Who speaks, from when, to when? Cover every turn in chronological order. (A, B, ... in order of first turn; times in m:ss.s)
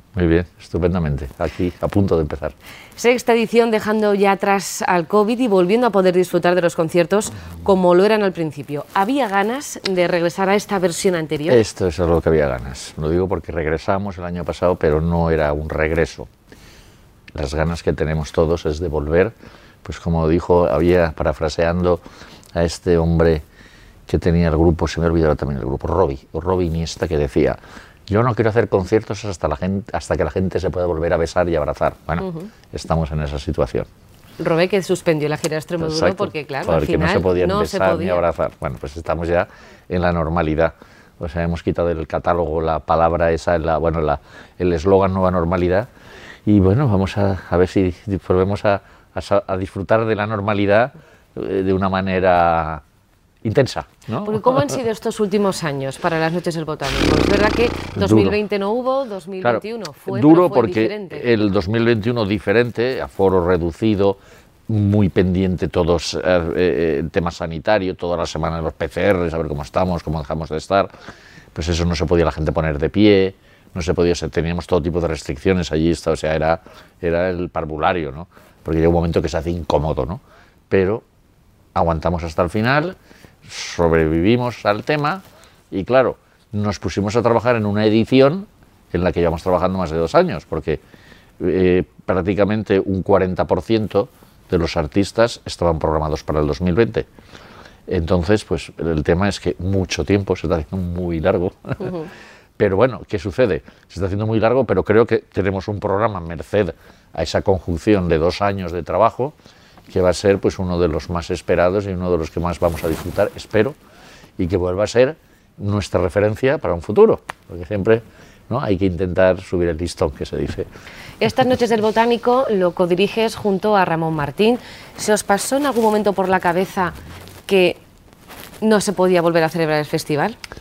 0:00.2-0:02.6 A
0:03.0-0:11.6 B
0:11.5-0:16.3 A
0:17.4-0:22.0 A
0:22.6-0:23.4 A
0:24.1-0:33.9 A
0:34.4-0:38.2 B
0:35.8-0:45.9 A
0:46.5-0:52.8 A
0:53.4-0:54.8 A
0:54.2-1:01.3 B
0:58.0-0:58.4 A
0:59.4-1:10.9 A
1:11.6-1:21.0 A
1:21.8-1:30.8 A
1:31.4-1:37.1 A
1:37.9-1:42.0 A
1:42.6-1:49.3 A
1:49.9-1:53.8 A
1:54.4-2:00.7 A
2:01.2-2:07.8 B
2:08.6-2:10.4 B